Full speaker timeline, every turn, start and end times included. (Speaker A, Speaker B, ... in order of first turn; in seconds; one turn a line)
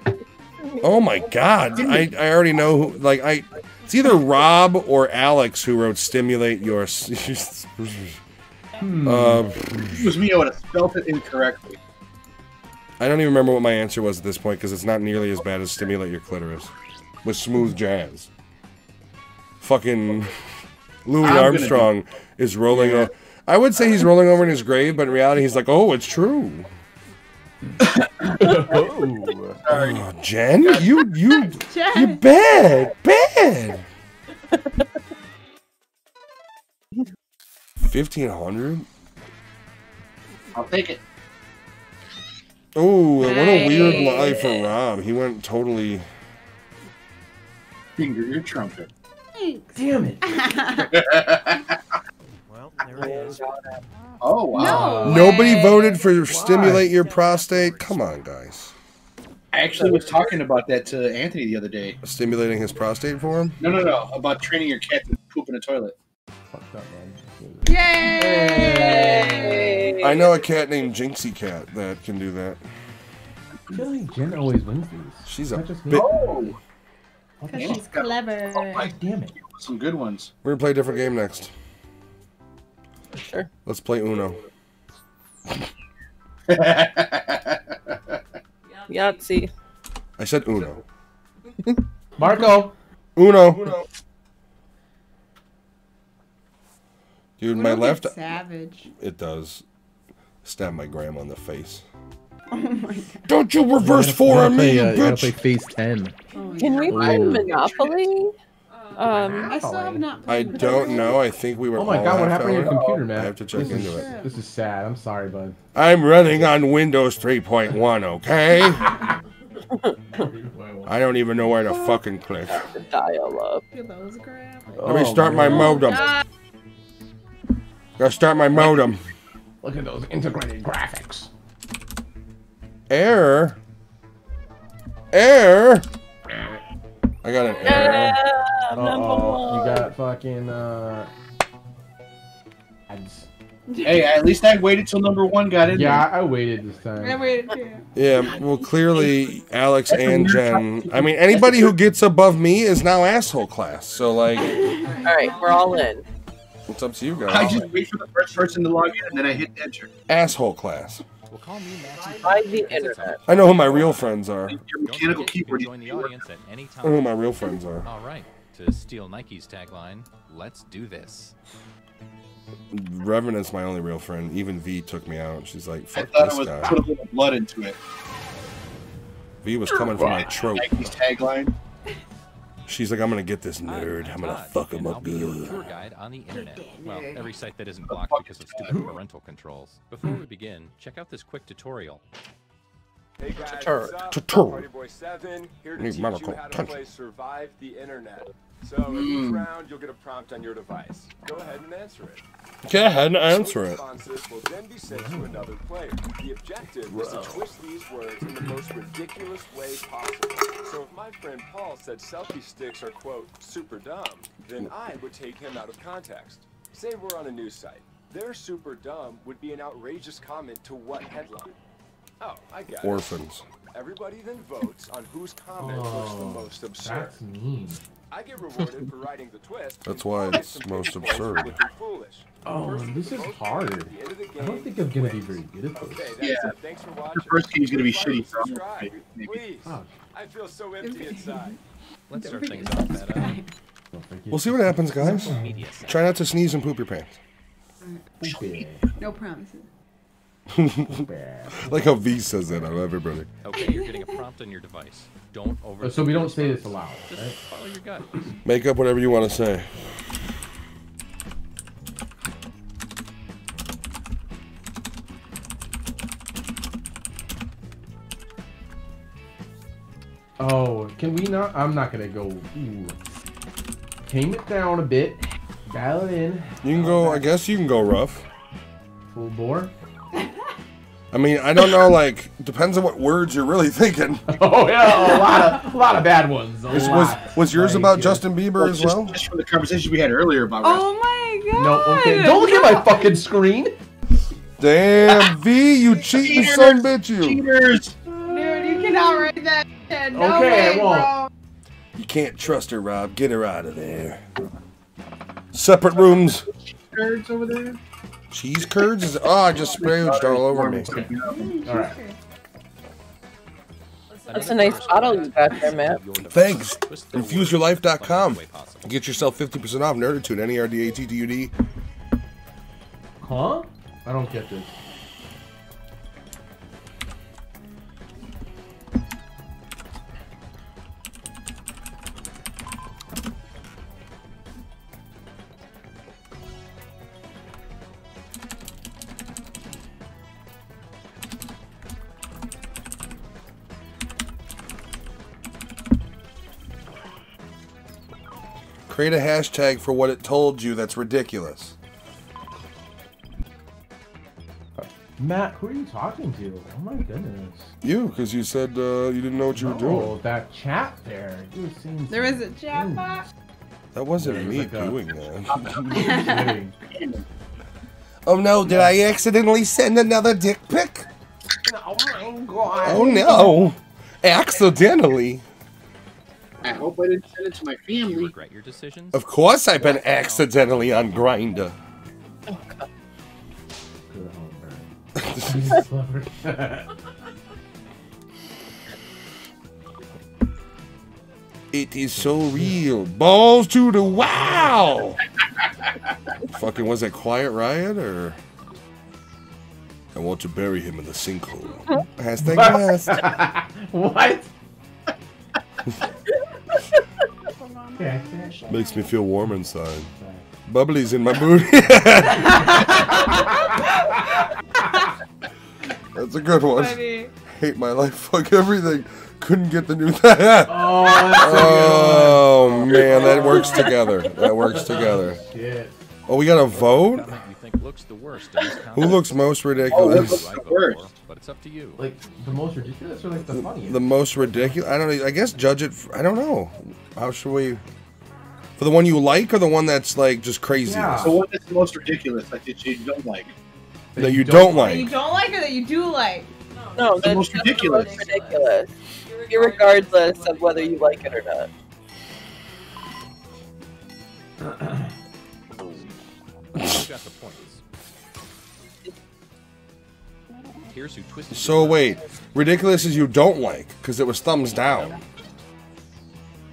Speaker A: 0.8-8.2
Speaker B: 1.7-2.1
Speaker C: 8.8-9.9
Speaker A: 9.0-10.1
Speaker B: 9.9-11.8
Speaker A: 13.0-16.7
Speaker A: 17.2-18.3
Speaker A: 19.6-20.4
Speaker A: 21.0-26.7
Speaker B: 21.2-21.9
Speaker C: 22.7-23.1
Speaker C: 28.3-29.6
Speaker B: 29.6-30.0
Speaker A: 29.7-33.8
Speaker B: 30.6-31.0
Speaker D: 31.3-32.2
Speaker A: 37.8-38.9
Speaker B: 40.5-41.0
Speaker A: 42.7-46.0
Speaker D: 43.2-44.4
Speaker E: 43.7-44.6
Speaker B: 48.0-48.9
Speaker D: 49.3-51.0
Speaker C: 49.7-50.3
Speaker B: 50.8-51.8
Speaker F: 52.5-53.4
Speaker E: 53.0-53.8
Speaker B: 54.2-55.3
Speaker D: 54.5-56.0
Speaker C: 54.5-55.4
Speaker A: 55.0-58.7
Speaker C: 56.2-56.9
Speaker F: 56.5-58.2
Speaker B: 59.5-62.0
Speaker E: 59.8-60.2
Speaker A: 62.0-63.6
Speaker B: 63.6-65.9
Speaker C: 66.5-69.8
Speaker D: 67.6-70.0
Speaker E: 68.5-70.4
Speaker A: 70.0-72.6
Speaker C: 73.7-76.5
Speaker A: 75.2-76.1
Speaker B: 75.9-76.6
Speaker C: 77.4-77.8
Speaker D: 77.5-78.9
Speaker B: 77.5-78.7
Speaker C: 78.7-79.3
Speaker B: 79.4-80.3
Speaker A: 80.4-81.5
Speaker E: 83.1-83.5
Speaker A: 83.6-84.4
Speaker B: 86.5-88.2
Speaker E: 88.9-89.5
Speaker A: 90.2-90.8
Speaker C: 92.2-92.7
Speaker A: 93.2-93.8
Speaker A: 97.4-98.3
Speaker D: 97.5-98.9
Speaker A: 99.0-99.6
Speaker A: 100.4-101.8
Speaker D: 102.5-103.2
Speaker A: 103.3-105.3
Speaker C: 103.7-106.1
Speaker D: 106.3-107.2
Speaker E: 106.6-108.3
Speaker C: 106.9-107.5
Speaker B: 106.9-108.1
Speaker E: 108.9-109.6
Speaker C: 109.0-110.1
Speaker D: 109.4-111.2
Speaker A: 110.2-114.1
Speaker C: 111.7-115.5
Speaker B: 112.6-113.1
Speaker D: 113.5-114.4
Speaker A: 115.7-118.9
Speaker C: 120.1-121.0
Speaker A: 120.8-122.7
Speaker D: 121.7-122.0
Speaker E: 122.4-123.6
Speaker D: 123.7-126.2
Speaker C: 124.8-125.9
Speaker A: 124.8-126.2
Speaker A: 128.0-129.0
Speaker C: 129.6-131.3
Speaker A: 132.9-133.6
Speaker A: 135.1-135.8
Speaker A: 137.2-138.2
Speaker E: 137.6-139.9
Speaker C: 138.7-141.1
Speaker C: 142.9-143.3
Speaker D: 143.7-144.1
Speaker B: 143.8-146.1
Speaker C: 145.7-147.3
Speaker D: 147.0-147.8
Speaker A: 147.9-154.7
Speaker B: 149.9-151.7
Speaker D: 154.4-155.3
Speaker E: 155.0-156.0
Speaker A: 156.7-157.7
Speaker B: 157.2-159.9
Speaker A: 160.1-161.0
Speaker G: 161.3-164.2
Speaker E: 162.2-163.3
Speaker B: 162.6-166.2
Speaker A: 163.2-164.6
Speaker G: 164.8-171.3
Speaker A: 166.8-167.9
Speaker A: 172.7-176.9
Speaker B: 175.9-177.8
Speaker A: 179.4-180.9
Speaker C: 179.7-180.3
Speaker B: 180.0-181.5
Speaker A: 182.7-185.7
Speaker G: 183.6-192.0
Speaker D: 186.3-187.2
Speaker B: 187.9-188.9
Speaker H: 193.2-202.2
Speaker A: 193.4-194.7
Speaker A: 195.8-196.8
Speaker B: 198.8-199.5
Speaker A: 202.7-203.8
Speaker H: 202.9-221.6
Speaker C: 204.8-205.5
Speaker C: 206.9-207.5
Speaker H: 222.2-223.1
Speaker A: 222.8-223.4
Speaker H: 223.7-227.1
Speaker C: 225.6-227.8
Speaker H: 228.1-241.6
Speaker A: 229.8-231.6
Speaker C: 232.4-236.1
Speaker B: 236.2-236.5
Speaker B: 237.1-239.4
Speaker C: 239.6-239.9
Speaker D: 240.8-241.5
Speaker G: 242.1-243.4
Speaker D: 242.1-243.5
Speaker C: 243.9-245.5
Speaker A: 244.3-247.2
Speaker G: 245.0-246.2
Speaker C: 248.2-248.8
Speaker B: 248.2-248.6
Speaker D: 249.0-249.7
Speaker A: 250.5-251.1
Speaker C: 250.9-251.9
Speaker A: 251.6-253.3
Speaker G: 253.4-258.4
Speaker D: 253.5-254.1
Speaker C: 255.8-257.4
Speaker A: 258.4-260.0
Speaker C: 270.4-273.0
Speaker C: 274.1-277.3
Speaker A: 276.6-278.2
Speaker C: 279.1-279.7
Speaker A: 281.1-284.2
Speaker C: 284.3-288.2
Speaker A: 286.7-289.1
Speaker B: 288.6-290.9
Speaker D: 290.6-293.2
Speaker C: 291.5-293.8
Speaker A: 294.6-297.4
Speaker B: 295.1-295.3
Speaker B: 296.1-298.0
Speaker D: 298.1-301.3
Speaker C: 300.1-301.1
Speaker A: 301.9-304.2
Speaker A: 305.5-306.4
Speaker B: 306.3-307.8
Speaker A: 308.3-310.9
Speaker B: 309.5-311.9
Speaker D: 311.2-312.2
Speaker C: 311.6-311.9
Speaker G: 314.2-319.0
Speaker E: 314.3-316.0
Speaker A: 316.3-321.5
Speaker C: 323.2-324.7
Speaker A: 348.9-351.7
Speaker C: 354.8-357.7
Speaker A: 357.8-360.1
Speaker C: 359.5-363.2
Speaker D: 362.1-363.2
Speaker A: 363.9-366.1
Speaker C: 364.2-365.0
Speaker B: 365.5-366.1
Speaker D: 365.9-366.5
Speaker C: 365.9-366.7
Speaker B: 366.9-367.2
Speaker A: 368.2-371.1
Speaker C: 371.6-373.6
Speaker A: 372.8-375.4
Speaker B: 376.6-378.3
Speaker G: 378.0-379.2
Speaker A: 379.1-381.7
Speaker G: 380.0-381.1
Speaker E: 382.5-382.8
Speaker C: 384.1-386.9
Speaker A: 385.2-385.6
Speaker A: 391.7-395.2
Speaker C: 392.3-392.8
Speaker C: 394.2-394.7
Speaker A: 396.5-398.4
Speaker A: 400.1-403.3
Speaker C: 402.4-404.5
Speaker D: 407.5-409.1
Speaker C: 408.0-408.7
Speaker A: 408.7-410.1
Speaker C: 410.1-410.4
Speaker A: 410.6-412.8
Speaker D: 413.7-414.3
Speaker A: 416.1-425.4
Speaker D: 416.7-417.3
Speaker C: 420.6-423.9
Speaker C: 424.6-425.9
Speaker A: 426.2-427.4
Speaker G: 426.6-432.0
Speaker A: 429.0-430.5
Speaker B: 429.9-431.0
Speaker C: 432.0-434.7
Speaker A: 433.5-437.8
Speaker A: 438.8-441.4
Speaker C: 440.8-441.4
Speaker B: 441.2-443.5
Speaker C: 444.1-445.1
Speaker A: 444.2-445.1
Speaker D: 444.7-446.5
Speaker E: 446.9-451.7
Speaker B: 447.2-448.2
Speaker G: 456.7-457.8
Speaker G: 460.9-463.3
Speaker A: 461.5-465.2
Speaker G: 464.5-465.2